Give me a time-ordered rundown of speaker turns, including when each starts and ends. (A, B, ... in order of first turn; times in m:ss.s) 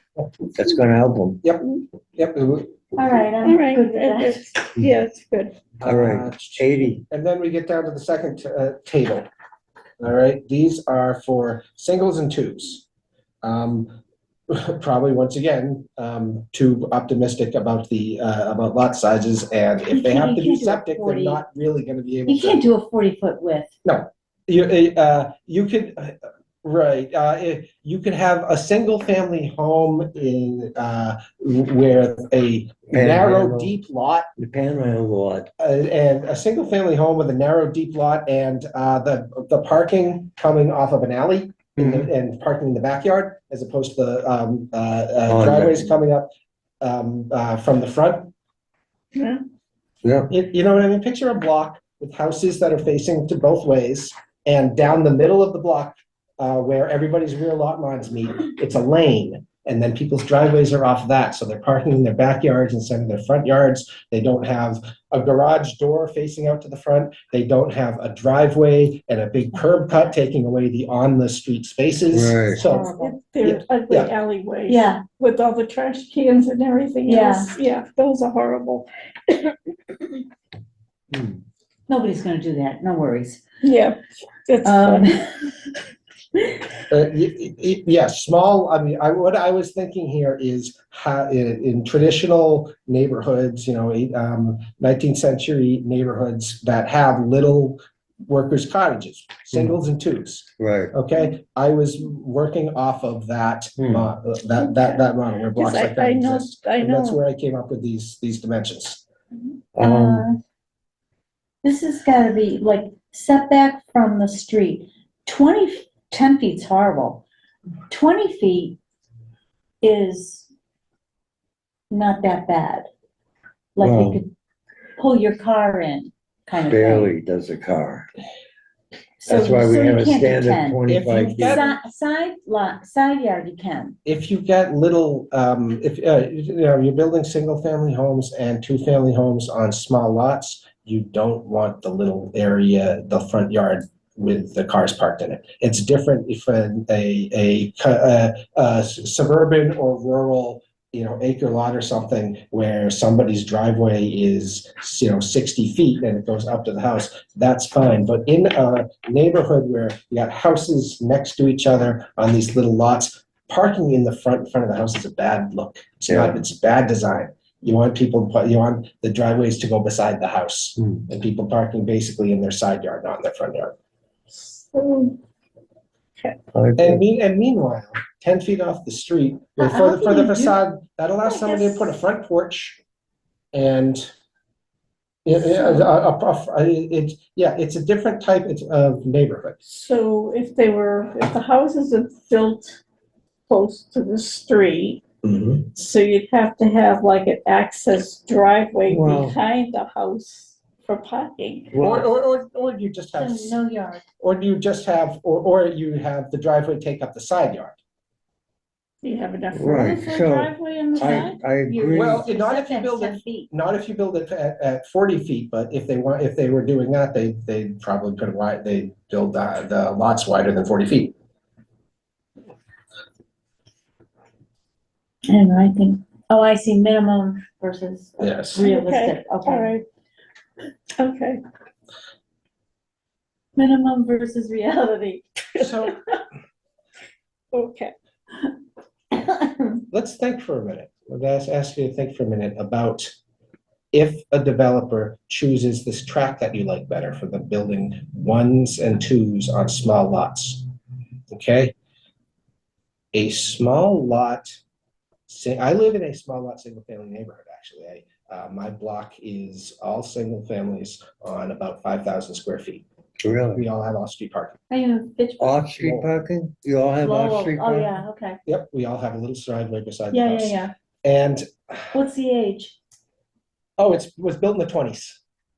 0:00.5-0:01.4 A
0:02.2-0:02.7 B
0:02.9-0:04.5 C
0:03.4-0:05.6 D
0:05.8-0:09.3 B
0:05.8-0:07.0 A
0:10.0-0:12.8 B
0:13.4-0:13.9 B
0:14.5-0:22.6 B
0:19.9-0:21.4 C
0:22.3-0:23.7 C
0:23.8-0:34.2 B
0:32.9-0:33.7 A
0:34.4-0:35.5 A
0:35.6-0:46.3 B
0:41.8-0:42.0 A
0:45.2-0:45.8 A
0:46.8-0:48.3 B
0:49.1-0:49.4 D
0:50.0-0:50.3 A
0:50.3-1:14.1 B
1:12.1-1:12.6 A
1:12.6-1:13.2 C
1:12.6-1:20.2 D
1:14.7-1:15.0 C
1:17.0-1:17.5 C
1:21.1-1:21.4 A
1:21.9-1:23.4 C
1:23.6-1:25.2 D
1:24.6-1:25.5 C
1:26.9-1:49.0 B
1:40.6-1:40.9 A
1:43.8-1:44.0 A
1:44.6-1:45.0 D
1:45.5-1:47.2 D
1:49.8-1:50.2 A
1:49.8-1:50.4 C
1:51.6-1:57.2 C
1:57.9-1:58.8 C
1:59.8-2:00.5 C
2:01.9-2:02.9 C
2:03.8-2:04.3 C
2:03.8-2:04.2 A
2:05.0-2:07.1 C
2:06.6-2:08.1 A
2:09.2-2:10.8 C
2:09.2-2:11.7 A
2:10.9-2:11.6 B
2:11.4-2:13.9 C
2:14.0-2:53.7 B
2:46.1-2:46.4 A
2:54.3-2:55.2 D
2:56.5-2:57.0 A
2:56.8-3:02.8 B
2:59.6-3:00.5 C
3:01.2-3:02.0 D
3:03.5-3:04.1 B
3:05.2-3:09.8 B
3:09.7-3:12.8 D
3:13.5-3:15.0 D
3:15.2-3:15.7 B
3:15.7-3:21.7 D
3:18.9-3:19.3 A
3:21.7-3:22.0 A
3:21.8-3:23.6 B
3:23.2-3:24.0 C
3:24.2-3:27.8 B
3:29.0-3:31.4 D
3:29.5-3:32.3 A
3:30.9-3:33.5 C
3:31.9-3:41.1 B
3:45.3-3:49.8 C
3:48.2-3:48.6 B
3:48.6-3:49.8 D
3:51.0-3:51.4 D
3:53.6-3:55.3 C
3:55.6-3:55.9 D
3:55.6-3:56.0 B
3:57.5-3:57.9 D
3:59.1-3:59.8 C
3:59.9-4:03.1 B
4:03.9-4:10.6 B
4:11.3-4:11.7 B
4:13.1-4:14.6 B
4:15.3-4:22.8 B
4:23.2-4:23.6 A
4:23.5-4:24.6 B
4:24.7-4:25.6 C
4:25.4-4:28.0 A
4:25.8-4:26.0 B
4:27.0-4:28.4 C
4:28.5-4:32.0 B
4:30.1-4:30.7 C
4:31.9-4:32.8 C
4:33.8-4:35.2 B